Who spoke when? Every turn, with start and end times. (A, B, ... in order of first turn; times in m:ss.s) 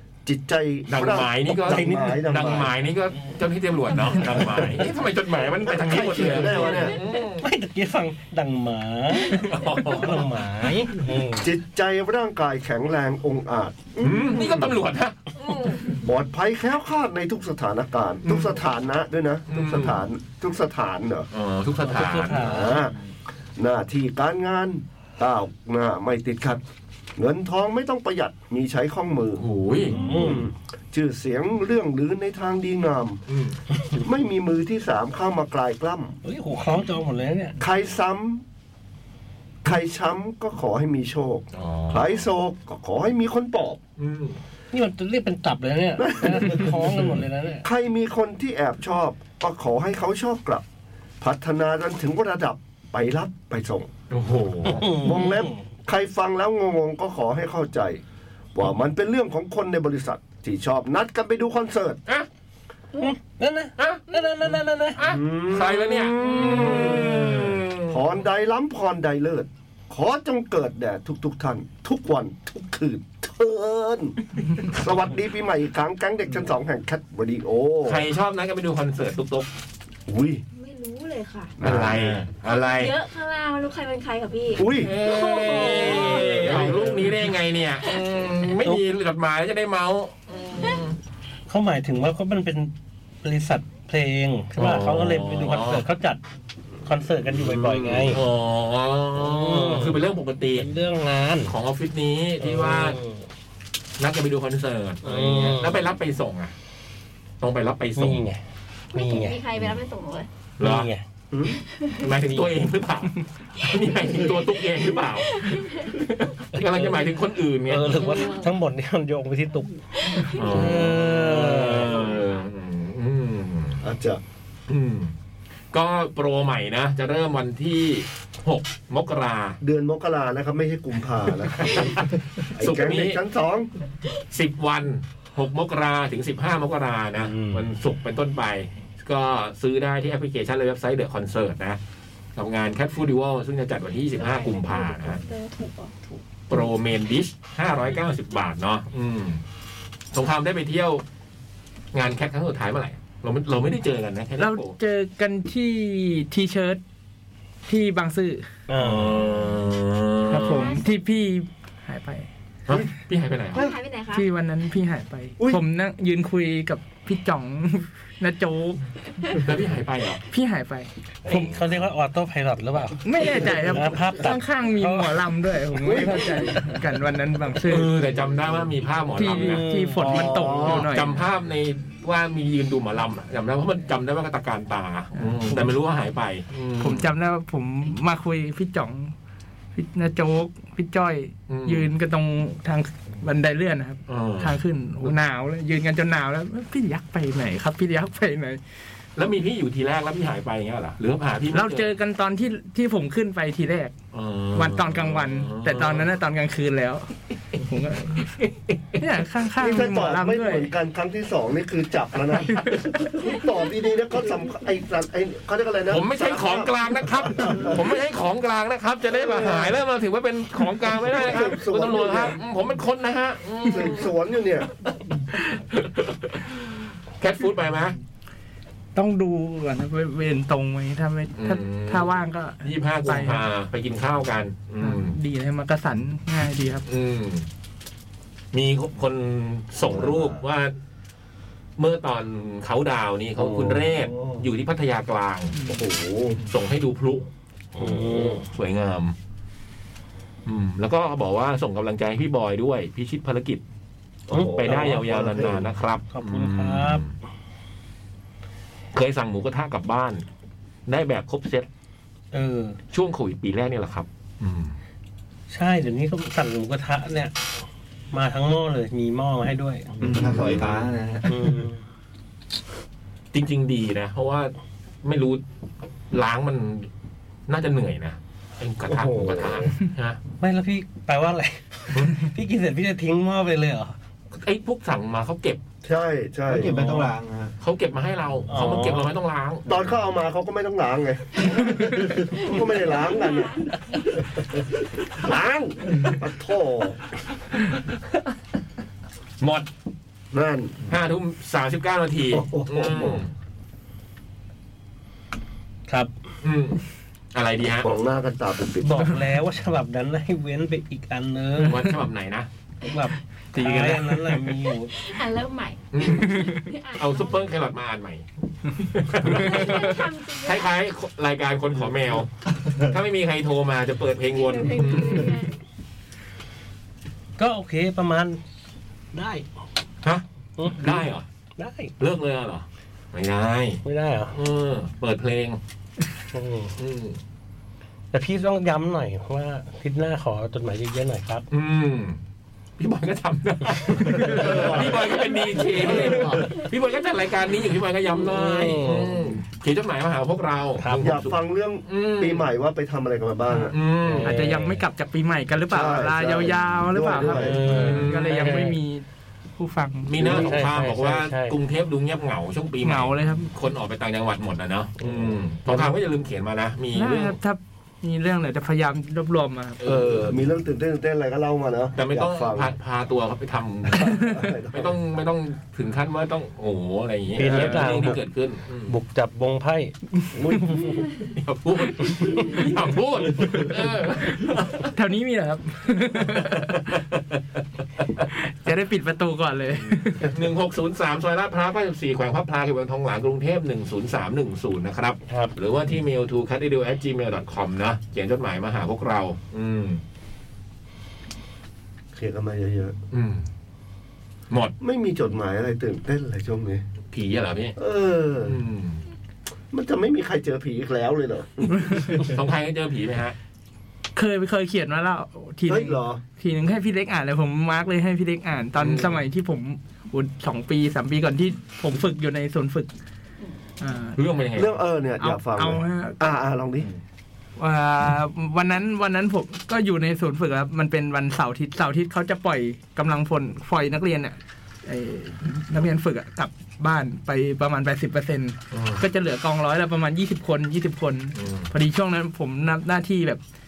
0:00.2-0:02.7 A
0:00.9-0:07.4 B
0:01.6-0:02.3 C
0:03.9-0:04.2 D
0:05.7-0:07.0 A
0:07.4-0:11.5 C
0:09.2-0:10.2 B
0:11.4-0:14.8 A
0:14.0-0:16.0 B
0:15.9-0:21.3 A
0:18.2-0:18.6 B
0:19.5-0:20.1 B
0:21.3-0:22.6 B
0:21.8-0:22.9 C
0:22.4-0:23.0 A
0:23.6-0:26.6 A
0:27.2-0:33.2 A
0:29.4-0:30.0 B
0:29.9-0:30.4 C
0:33.3-0:33.6 B
0:33.9-0:36.2 A
0:36.2-0:37.6 C
0:37.6-0:38.4 A
0:39.6-0:43.8 A
0:41.5-0:42.2 B
0:44.0-0:44.4 B
0:44.7-0:47.6 C
0:46.0-0:46.8 A
0:47.6-0:50.6 A
0:51.2-0:53.9 A
0:54.1-0:54.9 B
0:54.7-0:55.6 C
0:54.7-0:58.0 A
0:58.5-1:02.0 A
1:03.0-1:05.0 C
1:03.8-1:04.0 B
1:05.0-1:08.0 B
1:05.0-1:18.1 A
1:17.8-1:19.5 B
1:20.1-1:20.4 A
1:20.5-1:21.6 D
1:21.6-1:23.0 B
1:21.6-1:22.0 A
1:21.6-1:22.3 E
1:22.5-1:26.5 D
1:24.6-1:24.9 A
1:24.8-1:31.0 B
1:26.2-1:27.0 A
1:31.5-1:32.7 C
1:33.2-1:36.2 C
1:34.6-1:35.8 B
1:36.8-1:38.2 C
1:37.4-1:38.2 A
1:38.1-1:40.7 B
1:39.2-1:40.0 C
1:40.6-1:41.5 C
1:41.5-1:43.0 B
1:42.4-1:43.2 C
1:44.0-1:46.5 B
1:45.0-1:45.8 C
1:47.4-1:48.2 B
1:48.0-1:48.4 C
1:48.9-1:50.3 D
1:48.9-1:49.4 C
1:50.6-1:51.0 C
1:50.6-1:50.9 B
1:51.3-1:51.6 A
1:51.7-1:52.0 D
1:52.0-1:58.2 B
1:52.2-1:52.6 C
1:54.3-1:56.0 D
1:56.6-1:57.1 C
1:57.6-2:02.2 C
1:57.9-1:58.5 D
2:00.0-2:00.6 D
2:00.3-2:03.8 B
2:03.8-2:04.2 A
2:04.7-2:05.1 B
2:05.7-2:09.6 B
2:09.6-2:13.7 A
2:11.6-2:13.2 B
2:14.3-2:21.8 B
2:17.2-2:17.6 C
2:22.4-2:25.2 B
2:24.2-2:26.6 D
2:26.5-2:29.4 B
2:30.1-2:31.0 B
2:31.9-2:34.8 B
2:34.4-2:36.8 F
2:37.7-2:38.5 F
2:38.7-2:39.2 C
2:38.8-2:40.8 B
2:40.3-2:42.3 F
2:40.4-2:40.9 D
2:42.7-2:43.7 B
2:43.5-2:44.3 D
2:44.1-2:48.8 F
2:49.4-2:50.2 B
2:50.2-2:50.9 F
2:51.2-2:55.2 C
2:53.0-2:57.9 F
2:55.8-2:56.4 A
2:57.7-2:59.6 B
2:59.1-3:01.2 F
2:59.2-3:00.3 C
3:00.0-3:00.9 A
3:00.4-3:07.1 B
3:05.2-3:05.8 F
3:06.8-3:09.1 F
3:09.8-3:18.6 F
3:11.5-3:11.9 B
3:14.1-3:15.1 B
3:19.2-3:21.9 B
3:21.5-3:24.0 F
3:24.1-3:26.1 B
3:24.6-3:28.3 F
3:28.2-3:29.0 B
3:29.0-3:30.7 F
3:29.6-3:37.8 A
3:35.9-3:44.1 B
3:39.1-3:39.8 A
3:41.0-3:42.4 A
3:43.7-3:44.7 A
3:45.6-3:48.0 B
3:49.0-3:53.5 F
3:51.4-3:55.2 B
3:54.8-3:56.8 F
3:56.8-3:57.5 B
3:58.5-4:00.7 B
4:00.0-4:00.3 A
4:01.8-4:05.5 B
4:03.6-4:04.4 A
4:05.5-4:05.8 F
4:05.7-4:06.4 A
4:06.4-4:09.2 B
4:07.8-4:08.5 C
4:10.5-4:13.6 B
4:14.3-4:15.7 A
4:14.3-4:15.0 C
4:14.4-4:17.1 B
4:16.1-4:17.0 C
4:18.9-4:20.2 B
4:20.9-4:21.7 B
4:22.3-4:22.8 C
4:22.9-4:24.8 B
4:25.5-4:27.3 C
4:28.1-4:29.9 C
4:30.0-4:31.6 E
4:30.0-4:30.8 A
4:31.3-4:31.8 C
4:33.3-4:34.5 B
4:35.0-4:35.4 B
4:36.1-4:36.9 B
4:37.5-4:40.2 B
4:38.9-4:39.7 A
4:40.4-4:44.0 C
4:44.3-4:45.6 B
4:45.8-4:47.0 A
4:46.5-4:47.6 E
4:47.6-4:49.6 B
4:48.5-4:49.1 C
4:49.7-4:53.7 A
4:52.5-4:53.8 D
4:54.2-4:57.0 A
4:59.4-4:59.7 B
5:00.3-5:00.8 A
5:00.9-5:03.3 B
5:02.3-5:03.2 A
5:06.4-5:06.8 B
5:07.3-5:07.9 B
5:07.8-5:09.0 A
5:08.8-5:11.8 C
5:11.6-5:11.9 F
5:11.6-5:12.5 B
5:12.8-5:14.9 C
5:13.5-5:14.5 F
5:14.6-5:17.5 D
5:15.9-5:18.2 B
5:16.2-5:16.6 F
5:18.8-5:25.4 B
5:19.3-5:20.8 D
5:19.4-5:19.7 F
5:24.3-5:25.5 D
5:27.4-5:28.4 C
5:29.1-5:29.5 C
5:30.0-5:31.3 B
5:30.6-5:31.1 C
5:31.6-5:31.9 C
5:32.0-5:33.8 B
5:33.8-5:34.4 C
5:34.3-5:35.6 B
5:36.3-5:36.8 C
5:36.8-5:37.2 B
5:38.1-5:41.4 C
5:41.5-5:42.2 B
5:42.8-5:52.5 B
5:44.2-5:45.1 A
5:45.7-5:46.4 A
5:48.2-5:49.3 C
5:50.8-5:51.2 C
5:51.0-5:53.8 A
5:53.5-5:54.4 B
5:54.0-5:54.8 C
5:54.2-5:59.1 F
5:55.7-5:57.8 A
5:57.3-5:58.8 C
5:57.5-5:58.5 B
5:59.6-6:00.2 F
6:00.1-6:07.4 B
6:00.2-6:00.6 A
6:00.2-6:01.6 C
6:02.8-6:03.5 F
6:05.0-6:05.9 A
6:06.9-6:09.9 F
6:09.8-6:10.4 B
6:09.9-6:12.7 A
6:12.0-6:18.9 B
6:13.9-6:15.0 A
6:14.1-6:14.4 F
6:17.4-6:18.2 C
6:18.9-6:19.9 C
6:20.3-6:21.0 A
6:20.5-6:20.9 F
6:21.3-6:24.9 B
6:24.9-6:27.0 F
6:26.3-6:27.0 B
6:28.3-6:30.3 F
6:29.9-6:40.0 B
6:42.1-6:43.0 A
6:43.1-6:43.4 B
6:44.8-6:46.8 A
6:47.1-6:47.8 B
6:47.8-6:48.6 A
6:48.4-6:49.0 B
6:49.7-6:51.8 A
6:51.9-6:53.4 B
6:54.2-7:02.9 F
6:55.7-6:56.2 A
6:58.8-6:59.2 B
7:03.8-7:04.2 F
7:04.2-7:04.8 B
7:04.6-7:06.9 A
7:05.2-7:06.2 F
7:07.6-7:23.4 F
7:18.7-7:19.0 B
7:21.4-7:21.7 B